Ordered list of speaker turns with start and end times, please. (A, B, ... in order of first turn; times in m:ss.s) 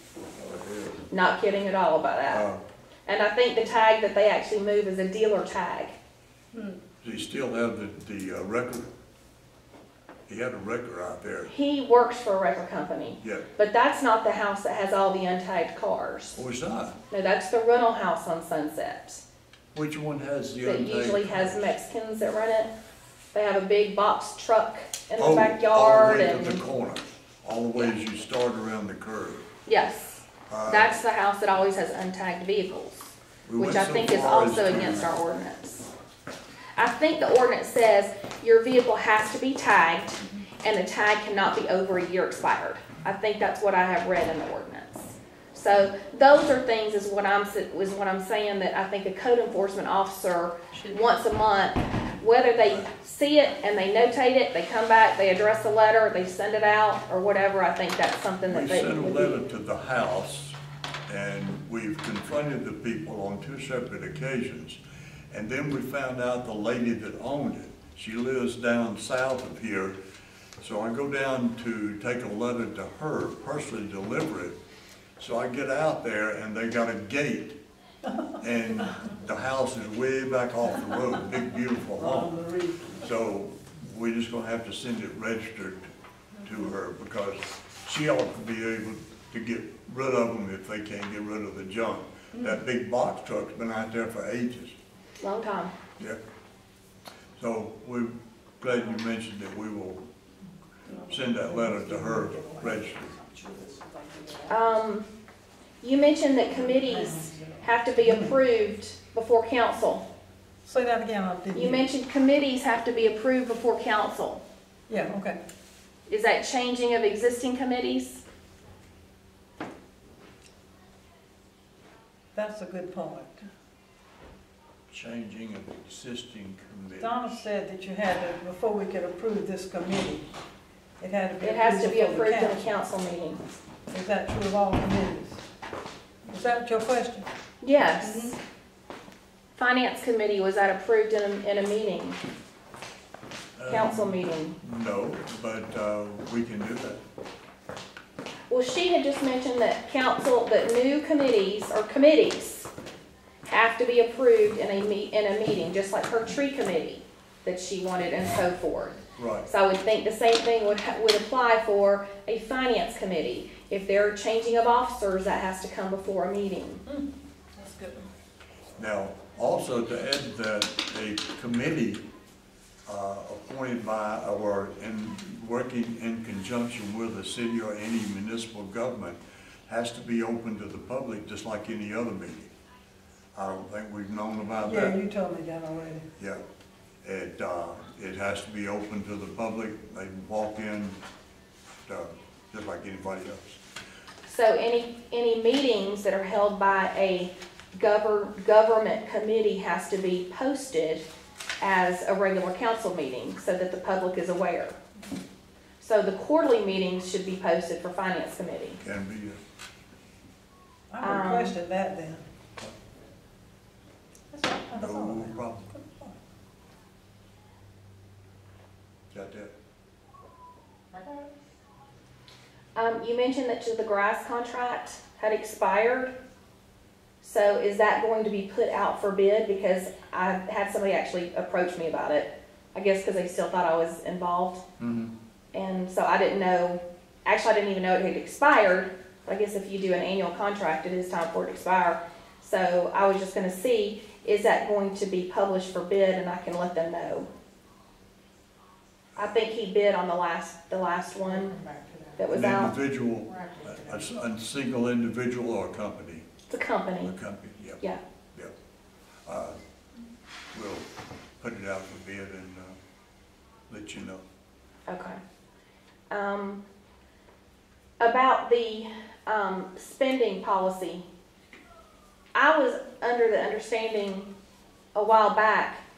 0:00.3-0:01.0 A
0:01.1-0:02.4 B
0:02.3-0:02.6 A
0:03.1-0:05.9 B
0:07.0-0:08.9 A
0:10.3-0:11.5 A
0:11.5-0:16.4 B
0:13.2-0:13.5 A
0:16.4-0:17.0 A
0:17.1-0:19.2 B
0:19.7-0:21.7 A
0:20.6-0:22.7 B
0:23.3-0:26.6 B
0:25.2-0:29.4 A
0:29.6-0:35.9 B
0:30.5-0:31.0 A
0:33.5-0:35.1 A
0:36.8-0:59.4 B
0:58.5-1:04.8 A
1:05.3-1:10.0 A
1:10.6-1:14.6 A
1:15.2-1:17.6 A
1:18.4-1:22.4 A
1:22.0-1:23.0 C
1:22.9-1:25.9 A
1:26.4-1:34.7 A
1:35.2-1:35.7 B
1:37.4-1:40.0 A
1:40.8-1:44.6 C
1:41.1-1:43.0 A
1:44.5-1:45.1 B
1:45.8-1:50.0 B
1:46.5-1:48.4 C
1:50.6-1:51.9 C
1:51.5-1:54.4 B
1:54.9-1:55.4 C
1:56.1-1:58.2 B
2:02.3-2:03.4 C
2:04.9-2:07.2 A
2:07.0-2:10.3 C
2:11.0-2:12.7 C
2:11.4-2:13.4 B
2:13.9-2:15.4 C
2:16.2-2:17.3 C
2:17.6-2:18.4 B
2:18.0-2:18.3 C
2:19.5-2:22.2 B
2:23.6-2:27.0 A
2:23.7-2:24.6 B
2:28.5-2:32.7 B
2:33.4-2:46.8 B
2:39.2-2:39.5 A
2:47.6-2:48.1 C
2:48.8-2:52.0 A
2:52.8-3:02.5 A
3:03.3-3:05.0 A
3:04.6-3:06.1 C
3:07.0-3:11.0 A
3:11.9-3:13.6 A
3:14.2-3:21.0 B
3:21.6-3:24.8 B
3:25.8-3:28.8 B
3:28.8-3:29.4 A
3:30.9-3:32.2 C
3:31.0-3:31.6 B
3:34.3-3:36.2 C
3:34.7-3:35.7 A
3:39.1-3:39.5 A
3:40.9-3:41.2 C
3:42.7-3:46.1 B
3:47.2-3:54.6 B
3:54.8-3:55.1 A
3:55.5-4:07.3 B
4:09.2-4:11.6 B
4:11.6-4:12.2 C
4:12.2-4:12.7 B
4:12.3-4:16.2 A
4:16.5-4:17.1 B
4:17.0-4:17.8 A
4:19.2-4:19.6 A
4:20.5-4:20.9 A
4:21.4-4:22.8 A
4:23.7-4:24.2 A
4:24.9-4:25.2 B
4:26.1-4:26.6 B
4:28.0-4:31.0 B
4:32.3-4:34.3 B
4:34.9-4:35.8 B